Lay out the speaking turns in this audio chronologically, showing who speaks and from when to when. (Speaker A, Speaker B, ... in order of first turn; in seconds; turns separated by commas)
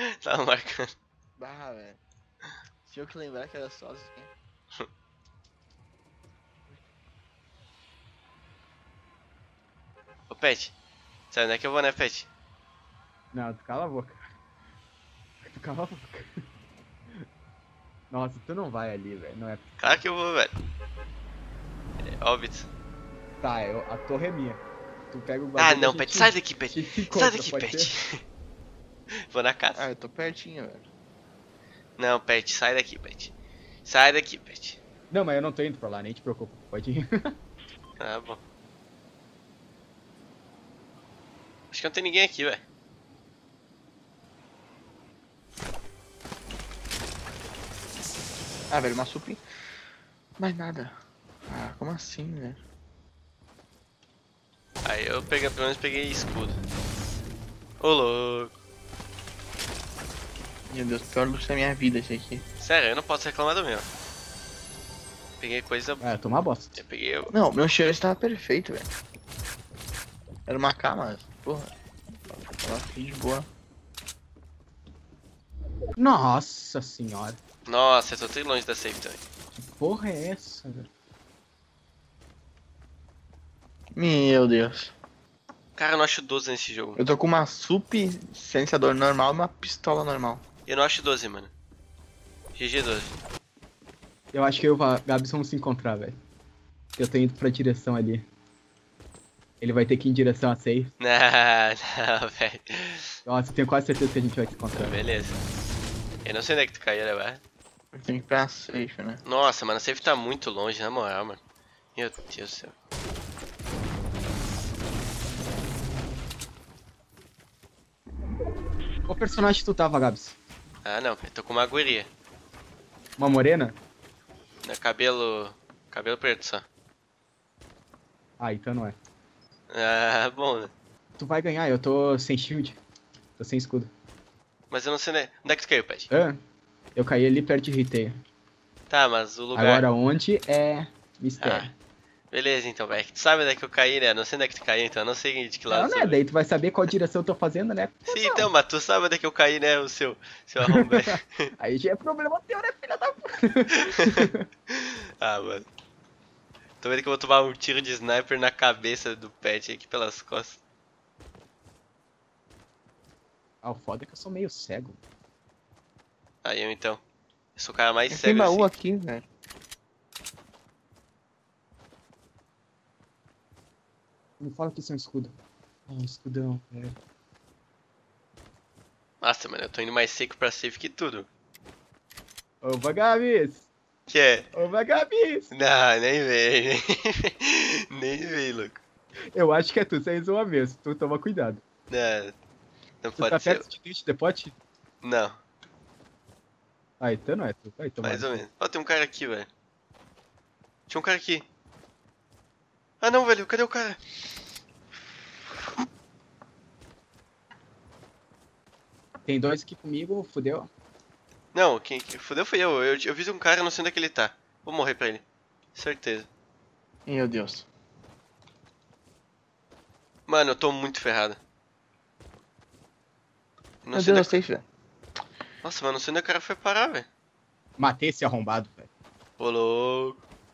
Speaker A: 0.2-0.9, Speaker B: 1.4-2.0, Speaker B: 2.9-4.3, Speaker A: 10.3-10.7, Speaker A: 11.3-12.3, Speaker C: 13.3-14.2, Speaker C: 15.4-16.3, Speaker C: 18.1-20.0, Speaker A: 19.8-20.5, Speaker A: 22.2-22.7, Speaker C: 23.4-27.9, Speaker A: 25.6-28.2, Speaker A: 29.3-29.9, Speaker B: 29.8-30.9, Speaker A: 32.0-33.3, Speaker A: 33.9-34.8, Speaker C: 35.1-37.0, Speaker A: 38.0-38.4, Speaker A: 41.7-42.6, Speaker B: 48.7-49.4, Speaker B: 50.4-50.9, Speaker B: 51.5-52.6, Speaker A: 54.8-56.6, Speaker A: 57.8-58.6, Speaker B: 60.7-62.4, Speaker A: 62.6-63.9, Speaker A: 65.4-67.3, Speaker C: 66.0-66.8, Speaker B: 67.3-68.9, Speaker B: 70.5-71.7, Speaker B: 72.5-73.5, Speaker C: 76.0-77.4, Speaker A: 77.7-79.2, Speaker C: 79.6-80.9, Speaker B: 84.0-84.9, Speaker A: 85.8-87.0, Speaker B: 87.0-90.4, Speaker A: 90.7-91.5, Speaker A: 92.6-93.1, Speaker C: 94.3-96.2, Speaker C: 97.0-98.3, Speaker C: 99.6-100.9, Speaker A: 101.0-103.1, Speaker C: 103.3-105.0, Speaker A: 104.7-105.4, Speaker A: 106.2-107.4, Speaker B: 107.9-109.2, Speaker A: 109.2-111.4, Speaker A: 112.0-112.7, Speaker C: 119.1-120.4, Speaker A: 120.8-122.1, Speaker C: 123.2-123.8, Speaker A: 124.6-126.7, Speaker C: 128.4-129.0, Speaker A: 129.7-130.7, Speaker C: 131.2-132.8, Speaker C: 133.4-133.9, Speaker A: 134.7-136.1, Speaker C: 136.1-136.4, Speaker C: 136.9-138.2, Speaker A: 138.9-139.8, Speaker C: 139.6-141.7, Speaker A: 141.4-141.7, Speaker A: 142.3-146.2, Speaker C: 145.7-148.5, Speaker A: 148.1-151.4, Speaker C: 150.7-154.4, Speaker A: 155.2-155.7, Speaker A: 156.8-160.6, Speaker C: 163.6-165.0, Speaker A: 166.4-167.0, Speaker A: 167.6-168.7, Speaker B: 168.1-169.2, Speaker C: 174.4-175.3, Speaker C: 175.9-176.9, Speaker A: 179.2-181.3, Speaker C: 182.6-183.7, Speaker A: 184.1-184.5, Speaker C: 184.5-185.5, Speaker A: 185.5-188.8, Speaker C: 189.3-191.6, Speaker A: 191.9-192.3, Speaker A: 193.0-193.7, Speaker C: 193.2-194.6, Speaker A: 195.0-195.4, Speaker C: 197.0-198.4, Speaker A: 198.0-199.5, Speaker A: 200.9-201.5, Speaker A: 203.0-204.0, Speaker C: 209.3-210.7, Speaker A: 211.5-216.3, Speaker B: 217.1-217.7, Speaker A: 220.3-221.4, Speaker A: 223.8-224.3, Speaker B: 223.9-224.6, Speaker A: 225.6-227.1, Speaker C: 227.8-228.9, Speaker A: 229.4-230.2